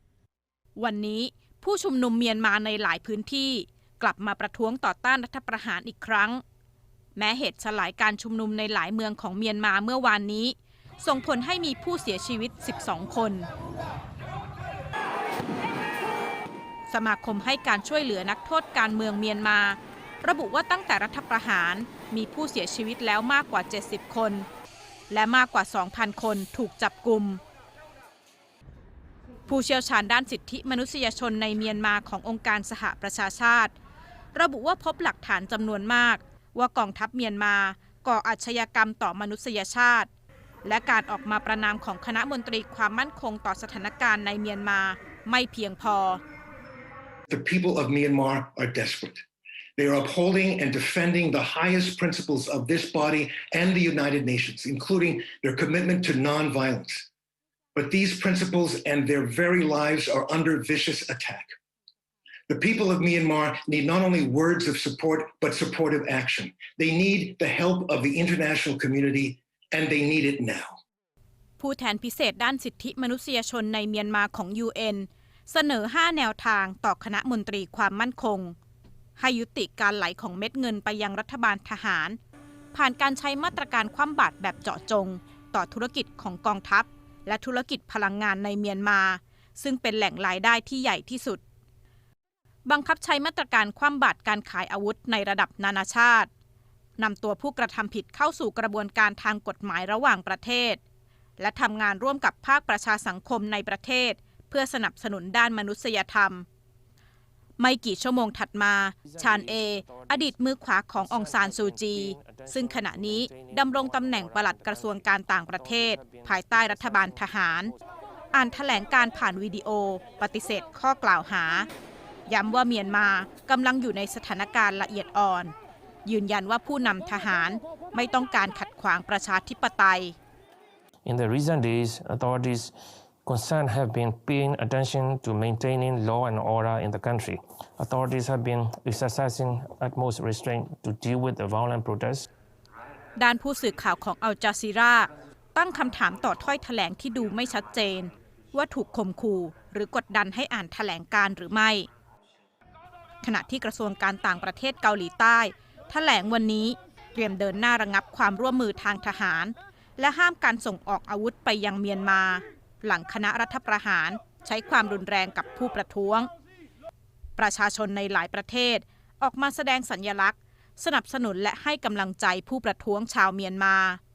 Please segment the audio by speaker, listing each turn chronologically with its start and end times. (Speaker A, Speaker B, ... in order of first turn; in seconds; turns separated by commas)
Speaker A: 0.8-6.4, Speaker A: 7.2-13.5, Speaker A: 16.9-24.4, Speaker A: 25.1-27.4, Speaker A: 29.5-33.7, Speaker A: 34.3-40.1, Speaker A: 40.6-46.2, Speaker B: 47.3-49.2, Speaker B: 49.8-57.1, Speaker B: 57.7-61.5, Speaker B: 62.5-70.8, Speaker A: 71.6-78.5, Speaker A: 79.2-82.2, Speaker A: 82.7-91.4, Speaker A: 92.7-96.3, Speaker A: 97.0-100.8, Speaker A: 101.4-106.4, Speaker A: 107.6-117.7, Speaker C: 109.0-117.8, Speaker A: 118.3-121.7, Speaker A: 122.3-125.5, Speaker A: 126.0-130.2, Speaker C: 131.0-142.3, Speaker A: 143.2-151.9, Speaker A: 153.2-166.3, Speaker A: 167.4-174.0